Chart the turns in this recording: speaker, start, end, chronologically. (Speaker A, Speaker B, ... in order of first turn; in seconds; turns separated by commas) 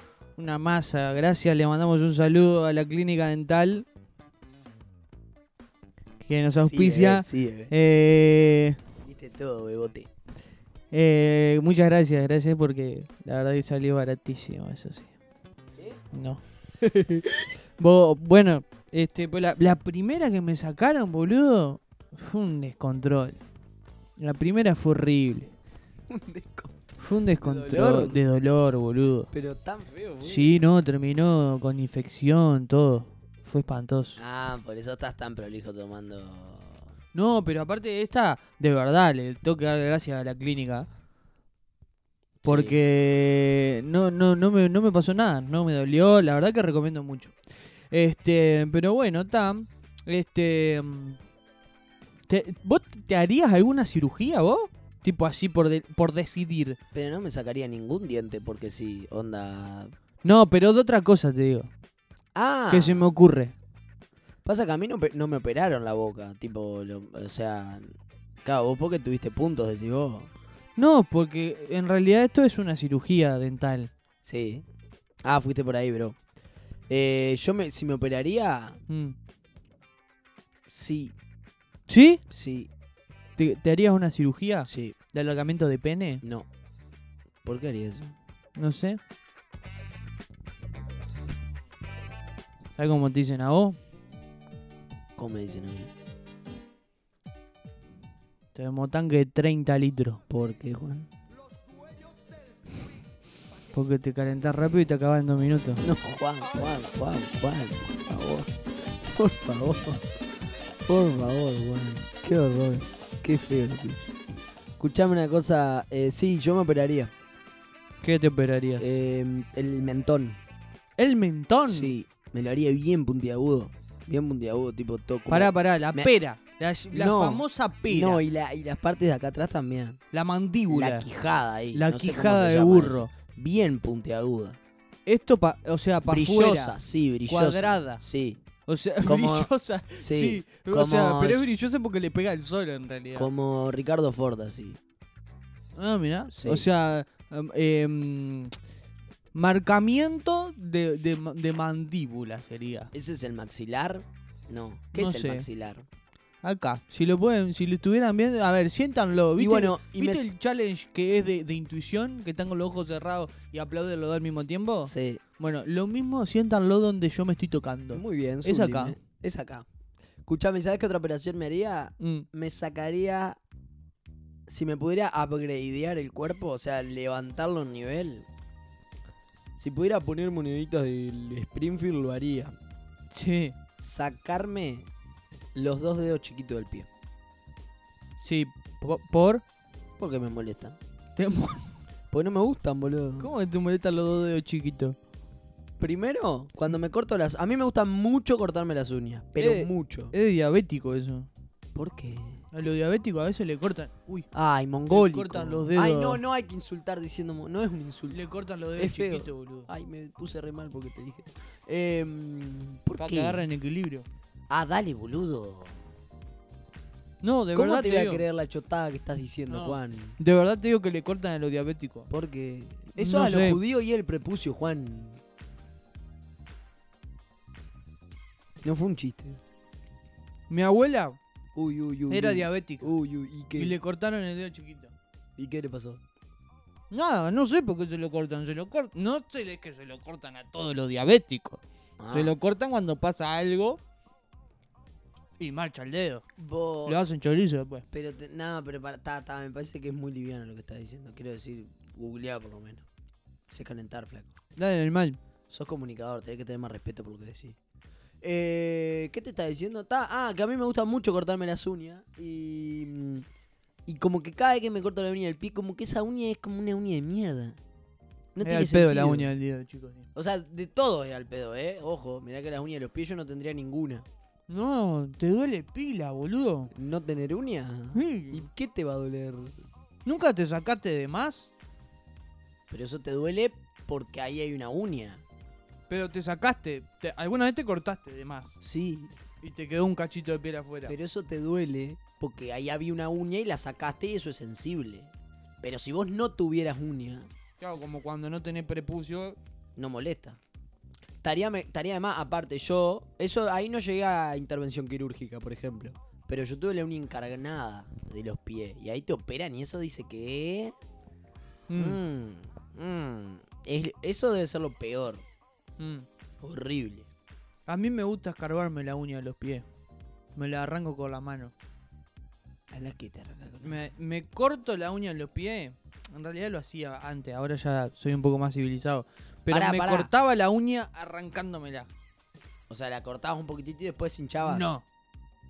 Speaker A: 0.3-3.8, Speaker A: 6.2-8.8, Speaker B: 6.6-7.7, Speaker B: 9.0-10.1, Speaker A: 10.9-15.1, Speaker A: 16.1-16.4, Speaker B: 16.8-17.4, Speaker A: 17.8-23.4, Speaker A: 24.2-25.5, Speaker B: 26.1-28.2, Speaker A: 27.0-29.3, Speaker B: 29.3-30.6, Speaker A: 30.2-34.2, Speaker B: 34.2-36.9, Speaker A: 37.1-40.9, Speaker B: 42.4-42.8, Speaker A: 42.4-47.4, Speaker A: 47.9-51.2, Speaker A: 52.3-56.8, Speaker B: 56.9-59.9, Speaker A: 60.2-61.7, Speaker B: 62.3-63.1, Speaker A: 62.7-63.5, Speaker B: 64.4-70.3, Speaker A: 70.8-73.9, Speaker B: 74.2-74.6, Speaker B: 75.2-76.2, Speaker B: 76.9-78.8, Speaker A: 78.9-79.2, Speaker B: 80.7-81.1, Speaker A: 81.9-82.2, Speaker B: 82.3-82.7, Speaker A: 83.4-86.2, Speaker B: 84.7-85.0, Speaker B: 86.2-86.5, Speaker B: 87.4-88.1, Speaker A: 88.5-89.0, Speaker A: 92.8-93.8, Speaker B: 95.2-95.9, Speaker A: 98.5-100.2, Speaker B: 100.3-101.1, Speaker A: 103.7-105.8, Speaker B: 105.8-110.0, Speaker B: 110.8-114.0, Speaker B: 114.8-117.1, Speaker A: 118.0-119.0, Speaker B: 118.8-120.4, Speaker A: 121.0-121.9, Speaker B: 121.7-126.1, Speaker A: 125.3-128.2, Speaker B: 126.9-130.0, Speaker A: 130.1-131.1, Speaker B: 130.7-134.6, Speaker A: 131.7-133.1, Speaker A: 135.1-138.0, Speaker B: 136.1-138.4, Speaker A: 138.7-143.3, Speaker B: 139.0-141.4, Speaker B: 143.1-144.8, Speaker A: 145.8-148.5, Speaker B: 146.3-146.7, Speaker A: 149.3-152.9, Speaker B: 152.9-155.8, Speaker A: 154.9-155.5, Speaker A: 156.4-168.9, Speaker B: 159.4-160.3, Speaker B: 164.8-165.2, Speaker B: 167.9-169.7, Speaker B: 170.2-173.4, Speaker A: 172.0-172.2, Speaker B: 174.5-178.3, Speaker B: 179.6-182.5, Speaker A: 183.1-183.6, Speaker B: 183.8-184.9, Speaker B: 185.5-186.9, Speaker A: 188.2-189.4, Speaker B: 190.0-190.8, Speaker A: 191.2-191.8, Speaker B: 192.1-193.3, Speaker A: 193.2-195.0, Speaker B: 195.8-200.1, Speaker A: 199.4-201.3, Speaker B: 201.8-202.4, Speaker A: 202.5-204.3, Speaker B: 204.3-208.2, Speaker A: 204.9-206.2, Speaker A: 208.1-209.7, Speaker B: 208.8-213.4, Speaker A: 213.0-214.1, Speaker B: 214.5-215.8, Speaker A: 217.2-218.2, Speaker B: 217.5-220.2, Speaker A: 219.5-222.1, Speaker B: 222.1-225.2, Speaker A: 223.0-223.6, Speaker B: 228.6-229.4, Speaker A: 230.5-231.2, Speaker B: 231.5-233.8, Speaker A: 232.1-232.9, Speaker A: 233.5-234.9, Speaker B: 235.4-236.0, Speaker A: 236.9-243.8, Speaker B: 242.0-242.3, Speaker A: 245.4-246.2, Speaker B: 246.4-247.0, Speaker A: 246.8-247.8, Speaker B: 247.9-252.8, Speaker B: 253.5-254.3, Speaker A: 254.6-255.2, Speaker B: 255.5-257.6, Speaker B: 258.2-263.2, Speaker B: 263.9-267.6, Speaker B: 268.3-269.3, Speaker A: 268.4-270.1, Speaker B: 270.1-274.1, Speaker A: 274.5-276.7, Speaker B: 276.7-279.6, Speaker A: 277.9-278.5, Speaker A: 280.0-281.5, Speaker B: 282.7-285.2, Speaker A: 285.9-288.6, Speaker B: 288.6-289.1, Speaker A: 289.4-290.9, Speaker B: 290.9-297.3, Speaker A: 297.6-299.4, Speaker B: 299.8-300.4, Speaker B: 301.2-310.8, Speaker A: 311.7-312.0, Speaker B: 311.8-315.2, Speaker A: 315.8-316.1, Speaker B: 316.4-317.1, Speaker A: 317.7-319.6, Speaker A: 320.3-321.5, Speaker B: 322.7-323.8, Speaker A: 323.6-331.9, Speaker B: 329.5-330.1, Speaker B: 332.7-334.7, Speaker A: 334.4-334.8